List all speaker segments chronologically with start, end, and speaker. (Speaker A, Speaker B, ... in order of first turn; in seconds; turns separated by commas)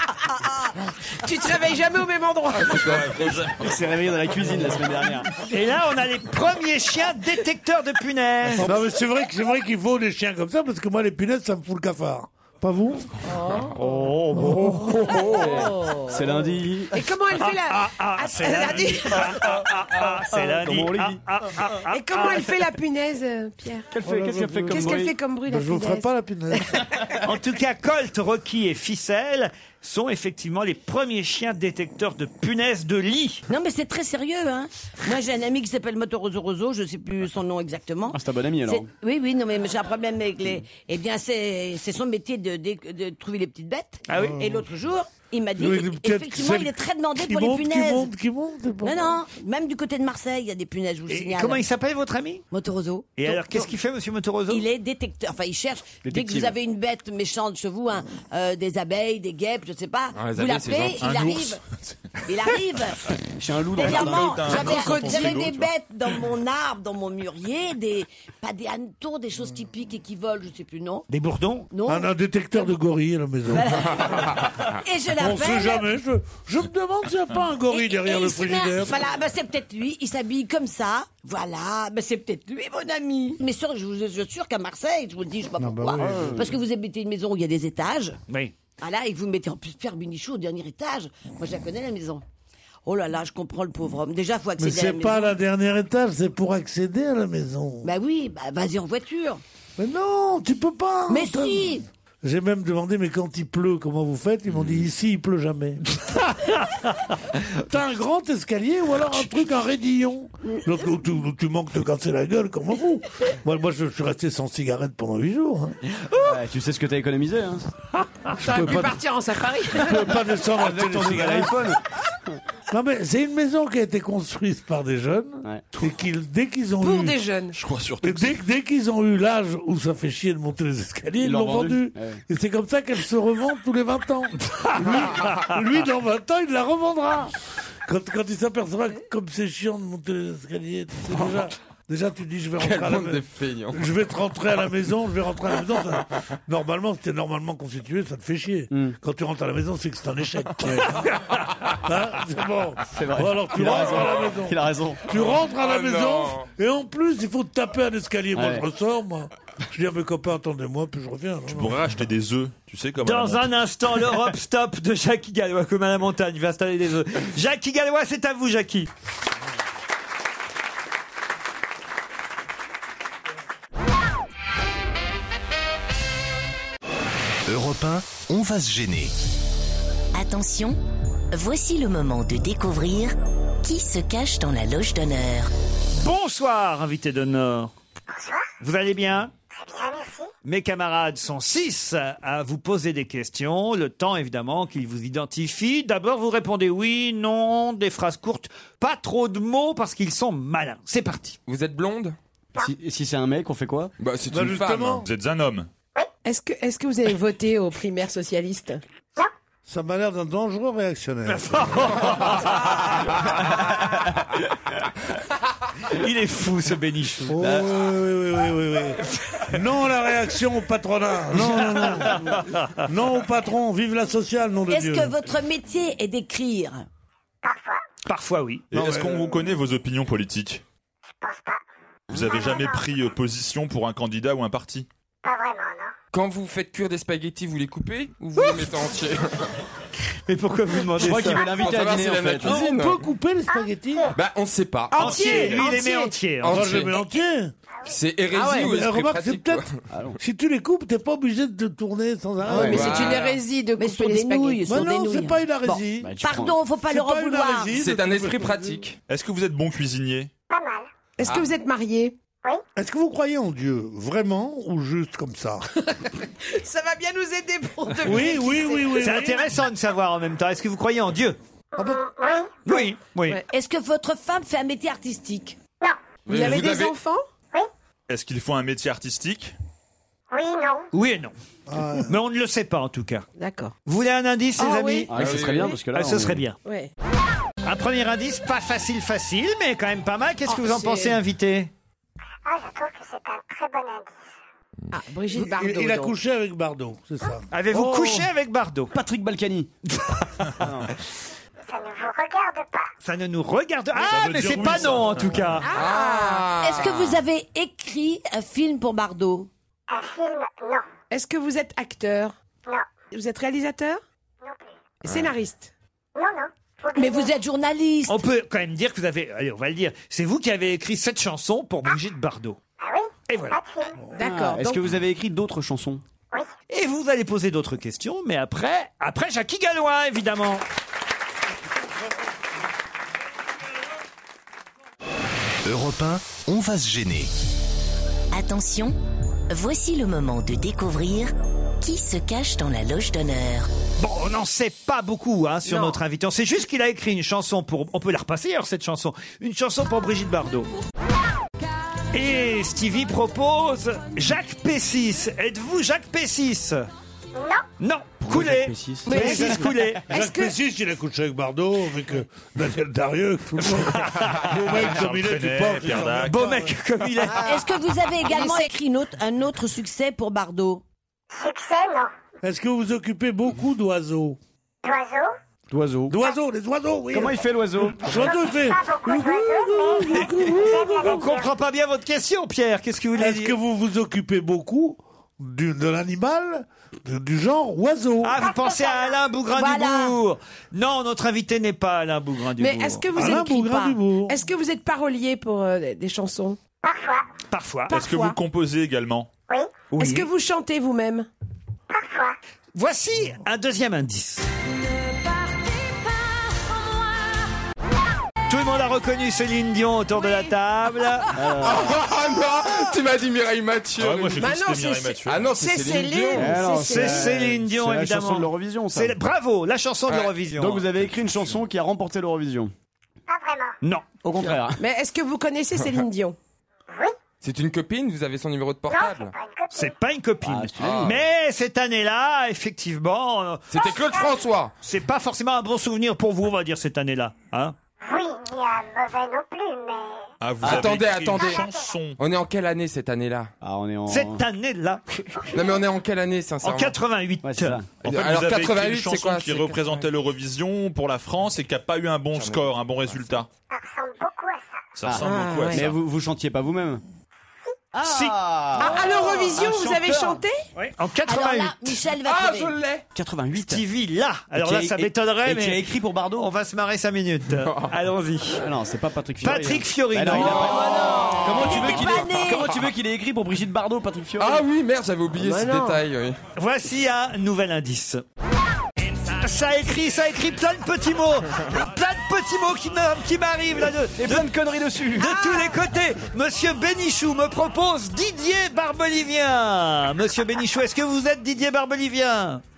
Speaker A: 1.1-3.0, Speaker B: 2.6-3.5, Speaker C: 2.7-3.8, Speaker D: 3.6-5.3, Speaker E: 5.4-8.7, Speaker F: 8.6-13.1, Speaker A: 13.2-13.8, Speaker E: 13.8-15.4, Speaker F: 14.4-14.8, Speaker A: 14.8-19.6, Speaker D: 15.3-16.9, Speaker E: 17.4-22.5, Speaker D: 20.5-21.2, Speaker A: 21.9-23.9, Speaker D: 23.9-25.1, Speaker F: 24.0-26.9, Speaker A: 24.7-26.1, Speaker E: 27.2-33.4, Speaker G: 33.5-48.1, Speaker D: 38.1-38.9, Speaker E: 44.1-44.4, Speaker F: 44.1-44.7, Speaker F: 45.5-49.2, Speaker G: 48.8-51.6, Speaker E: 51.1-52.4, Speaker G: 52.5-53.7, Speaker E: 53.2-54.6, Speaker G: 54.5-61.6, Speaker D: 56.0-56.5, Speaker B: 60.1-61.1, Speaker C: 60.9-61.6, Speaker G: 62.3-63.0, Speaker D: 63.4-64.4, Speaker G: 63.8-71.1, Speaker C: 63.8-65.7, Speaker A: 64.5-65.4, Speaker E: 71.1-71.7, Speaker G: 71.7-72.7, Speaker F: 71.9-74.4, Speaker G: 73.5-75.9, Speaker F: 75.1-79.0, Speaker G: 77.7-88.2, Speaker F: 85.6-86.6, Speaker D: 86.0-86.5, Speaker E: 88.3-88.5, Speaker G: 88.8-92.2, Speaker G: 92.8-95.4, Speaker F: 94.6-97.9, Speaker G: 97.8-99.4, Speaker F: 99.8-105.8, Speaker G: 101.1-101.8, Speaker F: 107.6-115.8, Speaker D: 116.2-117.6, Speaker A: 118.4-120.2, Speaker F: 118.4-119.0, Speaker F: 119.7-121.7, Speaker D: 120.5-122.4, Speaker F: 122.7-127.2, Speaker A: 126.8-127.6, Speaker C: 127.5-128.3, Speaker F: 128.0-137.3, Speaker D: 131.2-132.2, Speaker F: 137.8-161.9, Speaker B: 142.6-143.8, Speaker D: 148.7-148.9, Speaker D: 152.9-155.1, Speaker B: 155.3-156.5, Speaker D: 158.3-158.7, Speaker C: 161.5-163.5, Speaker E: 163.0-168.9, Speaker H: 177.5-179.1, Speaker I: 180.1-180.8, Speaker I: 181.3-185.5, Speaker E: 186.0-187.7, Speaker E: 188.6-189.3, Speaker J: 189.6-190.3, Speaker E: 190.4-201.4, Speaker B: 201.4-202.2, Speaker D: 202.6-203.9, Speaker B: 204.0-205.0, Speaker F: 204.3-205.1, Speaker C: 205.0-205.7, Speaker A: 206.2-208.8, Speaker F: 209.7-212.2, Speaker E: 211.3-213.0, Speaker E: 215.9-217.4, Speaker F: 217.3-225.2, Speaker D: 217.4-217.7, Speaker E: 221.4-222.8, Speaker G: 224.7-226.8, Speaker J: 227.4-227.8, Speaker E: 228.1-228.7, Speaker C: 228.7-230.6, Speaker F: 228.7-229.4, Speaker J: 231.2-231.6, Speaker C: 232.1-234.9, Speaker J: 232.2-232.8, Speaker J: 235.2-235.9, Speaker B: 236.1-239.5, Speaker E: 240.3-241.5, Speaker D: 240.9-242.6, Speaker B: 241.2-243.0, Speaker F: 242.4-244.1, Speaker J: 243.5-244.1, Speaker B: 244.1-245.6, Speaker A: 244.9-246.1, Speaker E: 244.9-246.8, Speaker B: 246.4-247.0, Speaker F: 246.5-247.5, Speaker B: 247.9-249.7, Speaker A: 248.3-248.8, Speaker F: 248.5-249.6, Speaker D: 249.9-250.2, Speaker F: 250.2-253.2, Speaker A: 252.5-254.7, Speaker D: 252.5-252.8, Speaker B: 252.7-253.4, Speaker G: 253.8-257.7, Speaker F: 254.6-258.8, Speaker D: 256.0-256.6, Speaker B: 257.7-259.0, Speaker C: 259.1-260.3, Speaker J: 260.5-260.9, Speaker A: 261.2-262.1, Speaker F: 262.8-265.6, Speaker A: 266.0-269.2, Speaker F: 268.0-269.5, Speaker E: 269.0-271.4, Speaker J: 271.8-272.6, Speaker E: 272.6-273.4, Speaker A: 272.7-273.4, Speaker G: 273.5-275.6, Speaker B: 276.3-276.9, Speaker A: 276.3-277.2, Speaker C: 278.1-279.5, Speaker J: 280.3-280.9, Speaker E: 280.9-281.3, Speaker F: 281.7-282.1, Speaker E: 282.1-283.2, Speaker A: 283.4-283.7, Speaker E: 283.8-285.1, Speaker A: 284.6-285.2, Speaker D: 285.1-286.4, Speaker B: 285.1-285.7, Speaker E: 285.9-286.6, Speaker A: 286.6-286.9, Speaker E: 287.6-291.7, Speaker A: 290.5-291.2, Speaker J: 292.4-294.1, Speaker A: 294.9-296.1, Speaker F: 295.3-297.4, Speaker E: 297.5-298.9, Speaker D: 297.7-298.3, Speaker D: 298.9-299.7, Speaker D: 300.6-300.9, Speaker J: 301.7-302.9, Speaker E: 303.0-305.7, Speaker C: 304.0-305.5, Speaker F: 304.4-305.0, Speaker A: 305.6-306.5, Speaker B: 305.7-307.2, Speaker G: 306.6-309.5, Speaker J: 309.9-310.9, Speaker A: 311.1-312.4, Speaker J: 312.6-312.9, Speaker A: 313.1-314.0, Speaker A: 315.0-315.7, Speaker J: 316.1-317.3, Speaker G: 317.0-318.2, Speaker E: 318.1-322.6, Speaker J: 322.8-324.0, Speaker E: 323.3-323.6, Speaker A: 324.1-324.8, Speaker D: 324.2-326.0, Speaker E: 326.7-330.6, Speaker H: 335.6-337.3, Speaker I: 338.3-338.9, Speaker I: 339.5-343.7, Speaker E: 344.0-350.7, Speaker A: 345.7-346.0, Speaker E: 352.1-356.8, Speaker J: 357.3-357.6, Speaker E: 357.8-360.1, Speaker D: 358.2-359.4, Speaker A: 359.1-360.5, Speaker F: 360.1-366.7, Speaker E: 363.9-364.4, Speaker C: 364.6-366.5, Speaker E: 366.2-367.5, Speaker A: 367.3-367.6, Speaker G: 367.4-370.8, Speaker A: 368.2-368.7, Speaker J: 371.3-372.1, Speaker F: 372.4-374.4, Speaker J: 374.8-375.3, Speaker D: 375.7-376.1, Speaker F: 376.1-381.4, Speaker D: 377.1-378.1, Speaker J: 378.0-381.4, Speaker E: 380.8-383.5, Speaker F: 383.2-388.4, Speaker E: 388.2-393.2, Speaker J: 388.4-389.2, Speaker G: 389.5-390.1, Speaker A: 392.6-396.6, Speaker F: 393.1-394.3, Speaker J: 396.8-397.2, Speaker E: 397.5-397.9, Speaker A: 397.9-398.4, Speaker C: 397.9-399.3, Speaker J: 399.5-399.9, Speaker E: 399.9-400.3, Speaker A: 399.9-401.3, Speaker J: 401.9-402.4, Speaker E: 402.7-404.4, Speaker E: 408.5-411.3, Speaker D: 411.3-412.0, Speaker B: 411.6-414.5, Speaker C: 413.9-415.5, Speaker A: 414.4-417.4, Speaker B: 415.2-416.6, Speaker D: 416.4-419.1, Speaker E: 416.8-420.9, Speaker D: 420.6-422.7, Speaker J: 423.3-423.8, Speaker D: 424.2-424.8, Speaker A: 424.4-426.4, Speaker B: 427.4-429.3, Speaker J: 428.9-429.9, Speaker E: 429.7-433.6, Speaker D: 430.4-431.2, Speaker B: 430.8-431.1, Speaker B: 433.7-434.7, Speaker J: 433.8-434.4, Speaker E: 434.8-437.7, Speaker J: 438.0-440.2, Speaker C: 440.4-442.2, Speaker B: 440.6-441.6, Speaker J: 441.4-441.8, Speaker B: 442.2-443.5, Speaker D: 443.6-444.4, Speaker E: 444.1-445.0, Speaker B: 445.5-446.9, Speaker E: 446.6-447.8, Speaker D: 447.4-447.9, Speaker C: 448.0-453.5, Speaker B: 448.1-450.1, Speaker B: 452.3-453.3, Speaker J: 453.7-454.9, Speaker C: 454.9-455.9, Speaker D: 455.0-457.0, Speaker A: 455.2-455.9, Speaker D: 457.9-460.4, Speaker E: 458.0-459.3, Speaker A: 458.8-460.6, Speaker E: 460.8-462.0, Speaker G: 461.2-462.8, Speaker B: 462.2-463.0, Speaker D: 463.1-463.8, Speaker E: 463.5-468.6, Speaker D: 464.5-466.4, Speaker D: 468.5-474.6, Speaker E: 469.4-471.0, Speaker G: 470.3-472.8, Speaker A: 471.0-471.9, Speaker B: 474.4-476.4, Speaker A: 475.4-476.0, Speaker E: 476.6-478.2, Speaker E: 479.2-484.5, Speaker D: 484.2-485.3, Speaker A: 485.2-485.8, Speaker E: 485.2-492.6